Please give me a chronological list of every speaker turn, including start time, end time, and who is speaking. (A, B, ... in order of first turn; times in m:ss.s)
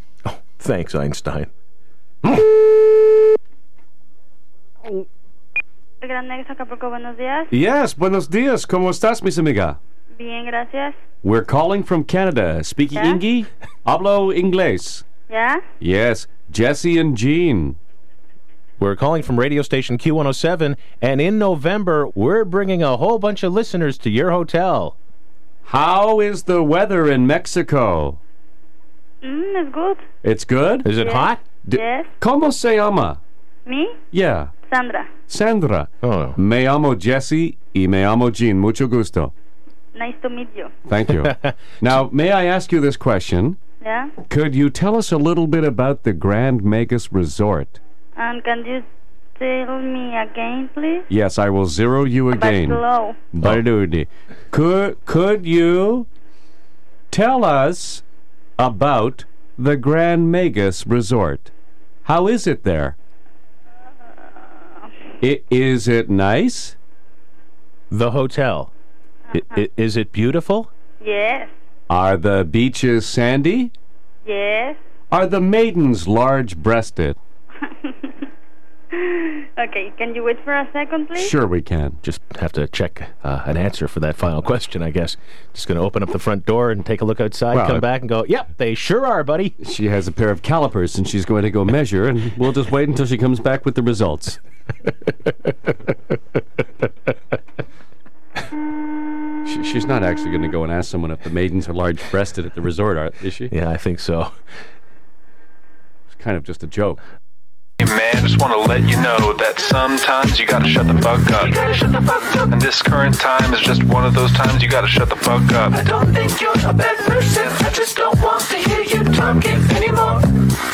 0:00.2-0:01.5 A
0:06.0-0:07.5 B
0:07.5-0:09.8 C
0:10.2-0:11.0 B
0:11.2-0:15.0 C
0:13.0-0:13.2 B
0:15.3-0:15.6 B
0:15.8-0:17.8 C
0:18.8-0:25.0 A
0:25.6-0:28.2 C
0:29.2-0:30.0 B
0:30.2-0:30.9 C
0:30.8-0:31.4 A
0:30.9-0:32.1 B
0:31.6-0:33.2 C
0:33.7-0:34.0 B
0:34.1-0:34.5 C
0:34.7-0:35.1 B
0:35.3-0:39.3 C
0:36.0-0:36.4 A
0:39.9-0:40.7 B
0:40.9-0:43.6 C
0:41.2-0:41.5 A
0:43.8-0:44.2 B
0:44.3-0:47.8 C
0:48.2-0:51.1 B
0:51.1-0:56.1 C
0:52.3-0:53.2 B
0:57.1-0:58.0 C
0:58.6-1:01.5 C
1:02.0-1:03.0 C
1:05.2-1:06.8 C
1:07.9-1:08.7 A
1:09.3-1:10.7 A
1:11.0-1:11.5 B
1:11.9-1:13.7 C
1:14.2-1:14.8 B
1:15.1-1:17.2 C
1:17.7-1:18.2 B
1:18.9-1:21.3 B
1:21.2-1:22.0 C
1:22.0-1:29.6 A
1:27.5-1:27.8 C
1:29.6-1:34.4 C
1:39.4-1:43.5 C
1:43.5-1:44.3 A
1:46.1-1:47.0 C
1:47.8-1:51.8 D
1:51.7-1:52.4 E
1:52.4-1:55.9 D
1:56.0-2:00.2 E
1:56.2-1:57.0 A
1:58.4-1:59.6 A